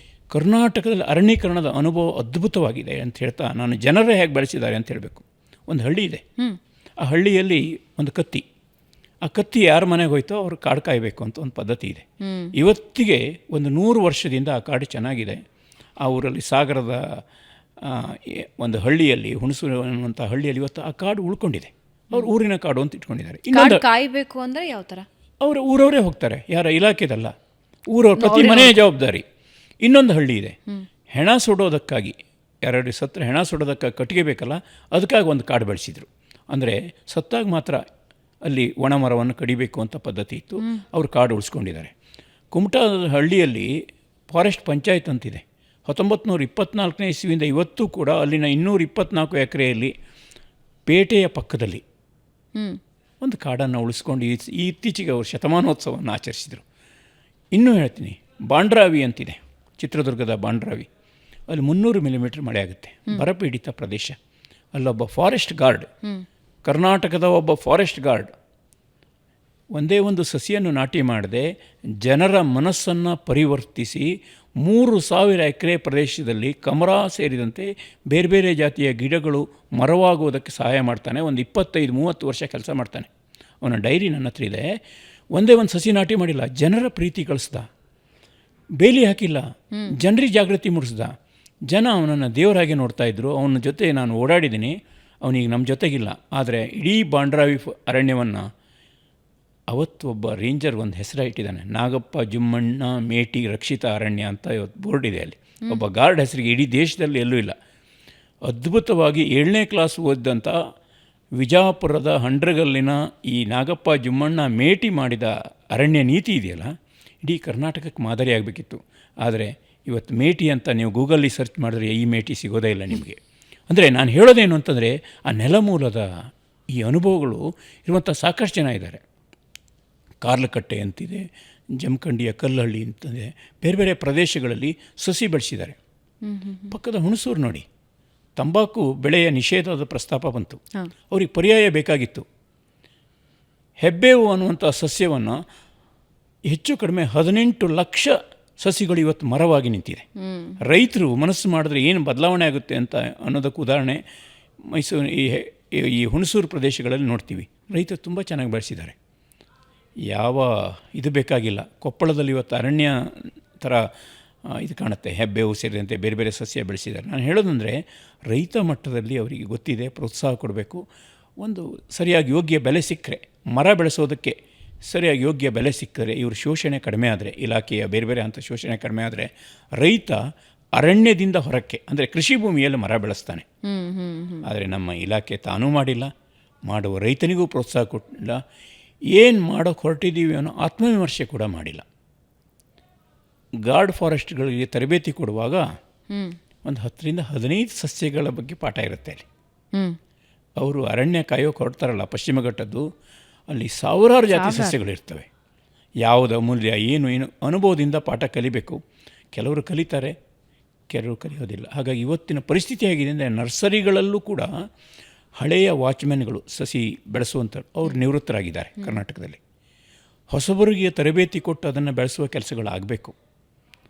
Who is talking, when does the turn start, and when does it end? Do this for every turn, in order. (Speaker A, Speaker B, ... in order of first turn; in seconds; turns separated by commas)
Speaker A: 0.3-6.2, Speaker A: 7.0-8.4, Speaker A: 9.2-15.4, Speaker B: 12.2-12.5, Speaker A: 16.0-17.2, Speaker A: 17.8-23.8, Speaker B: 23.5-25.1, Speaker A: 25.4-27.3, Speaker A: 27.9-29.2, Speaker B: 28.2-28.8, Speaker A: 29.8-30.6, Speaker A: 31.1-37.8, Speaker A: 38.5-41.9, Speaker A: 42.5-43.7, Speaker A: 44.3-49.9, Speaker A: 50.9-51.8, Speaker B: 52.5-52.8, Speaker A: 53.2-56.6, Speaker A: 57.5-60.9, Speaker A: 61.5-64.2, Speaker A: 64.7-65.9, Speaker A: 66.7-68.3, Speaker A: 69.7-83.1, Speaker A: 83.6-84.8, Speaker A: 85.3-87.7, Speaker A: 88.8-91.1, Speaker B: 89.7-90.0, Speaker A: 91.7-98.4, Speaker A: 99.7-107.5, Speaker A: 108.5-110.5, Speaker A: 111.4-116.7, Speaker A: 117.2-129.0, Speaker A: 130.2-135.8, Speaker B: 136.2-136.7, Speaker A: 136.7-137.7, Speaker A: 138.4-142.2, Speaker A: 143.8-145.4, Speaker A: 146.5-150.1, Speaker B: 150.2-150.6, Speaker A: 150.6-154.0, Speaker A: 154.7-158.9, Speaker A: 160.1-163.9, Speaker A: 164.5-170.8, Speaker A: 171.4-180.2, Speaker A: 180.8-183.4, Speaker B: 183.6-184.4, Speaker A: 184.4-186.1, Speaker A: 186.7-188.4, Speaker A: 189.1-191.8, Speaker A: 193.7-195.7, Speaker B: 196.1-196.4, Speaker A: 196.6-199.2, Speaker A: 200.6-202.8, Speaker A: 203.5-205.3, Speaker B: 204.3-204.8, Speaker A: 206.0-208.8, Speaker A: 209.3-210.2, Speaker A: 210.9-214.5, Speaker A: 215.4-219.4, Speaker A: 220.3-223.1